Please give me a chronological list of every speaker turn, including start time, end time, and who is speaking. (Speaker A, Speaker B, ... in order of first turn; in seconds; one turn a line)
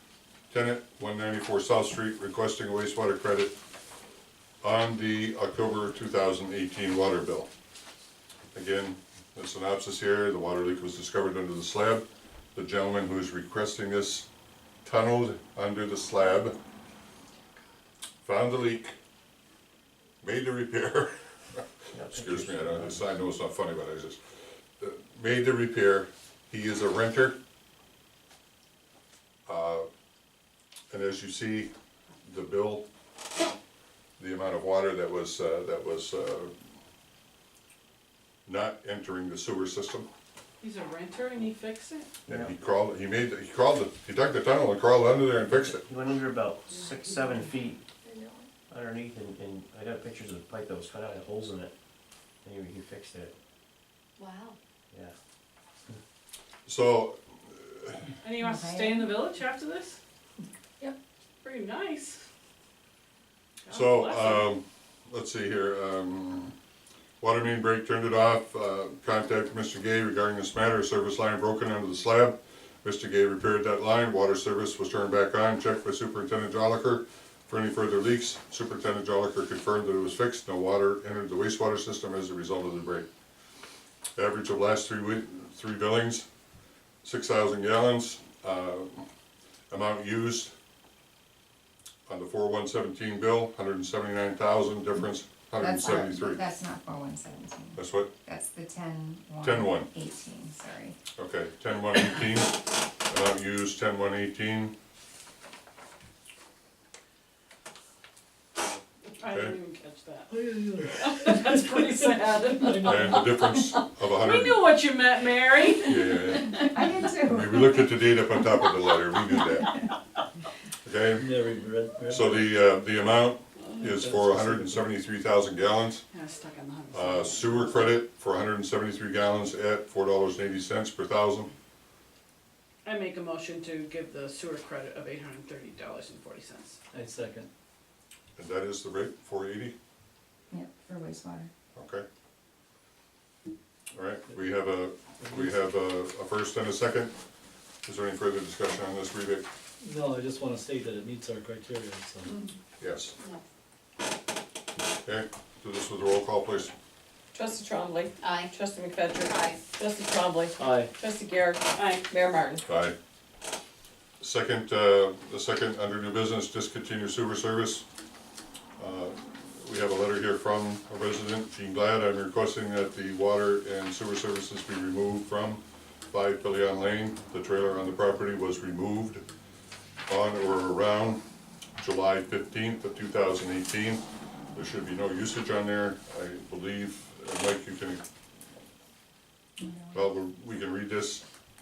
Speaker A: 0.5-3.5
Speaker A: 4.6-7.5
Speaker A: 8.5-12.0
Speaker A: 12.5-14.2
Speaker A: 14.8-16.5
Speaker A: 18.2-18.9
Speaker A: 20.2-24.2
Speaker B: 21.9-23.0
Speaker A: 24.8-27.3
Speaker A: 29.5-29.9
Speaker A: 30.9-31.7
Speaker A: 32.2-32.9
Speaker A: 34.2-36.5
Speaker A: 38.5-40.1
Speaker C: 40.6-42.1
Speaker A: 42.3-45.9
Speaker B: 42.3-42.5
Speaker B: 45.5-47.9
Speaker B: 48.7-51.7
Speaker B: 52.4-53.3
Speaker A: 56.6-58.0
Speaker C: 58.2-60.0
Speaker D: 58.4-59.1
Speaker C: 61.4-62.2
Speaker C: 63.6-64.5
Speaker A: 63.7-66.5
Speaker A: 67.2-83.1
Speaker A: 84.2-86.2
Speaker A: 87.0-89.1
Speaker A: 89.7-90.5
Speaker A: 92.1-96.4
Speaker D: 95.6-101.0
Speaker A: 97.8-98.1
Speaker A: 99.4-99.9
Speaker A: 101.2-104.7
Speaker C: 109.2-116.4
Speaker E: 110.3-111.9
Speaker E: 112.6-113.4
Speaker A: 112.8-114.6
Speaker A: 115.8-116.7
Speaker D: 116.4-118.0
Speaker A: 117.2-119.8
Speaker A: 120.8-121.3
Speaker E: 121.2-122.5
Speaker A: 122.1-126.0
Speaker E: 123.8-124.9
Speaker C: 126.1-127.9
Speaker A: 126.9-131.5
Speaker C: 132.8-136.8
Speaker E: 136.9-137.5
Speaker A: 138.3-139.7
Speaker D: 140.5-141.5
Speaker A: 141.7-142.0
Speaker A: 143.9-147.1
Speaker A: 147.8-149.4
Speaker E: 149.8-152.4
Speaker A: 152.8-153.1
Speaker A: 155.0-156.7
Speaker F: 157.3-162.6
Speaker E: 160.6-160.9
Speaker C: 161.7-162.1
Speaker A: 162.7-162.9
Speaker A: 164.2-167.8
Speaker A: 168.8-179.2
Speaker A: 180.1-181.2
Speaker A: 181.8-184.0
Speaker A: 184.5-188.0
Speaker D: 189.6-190.1
Speaker A: 189.9-191.2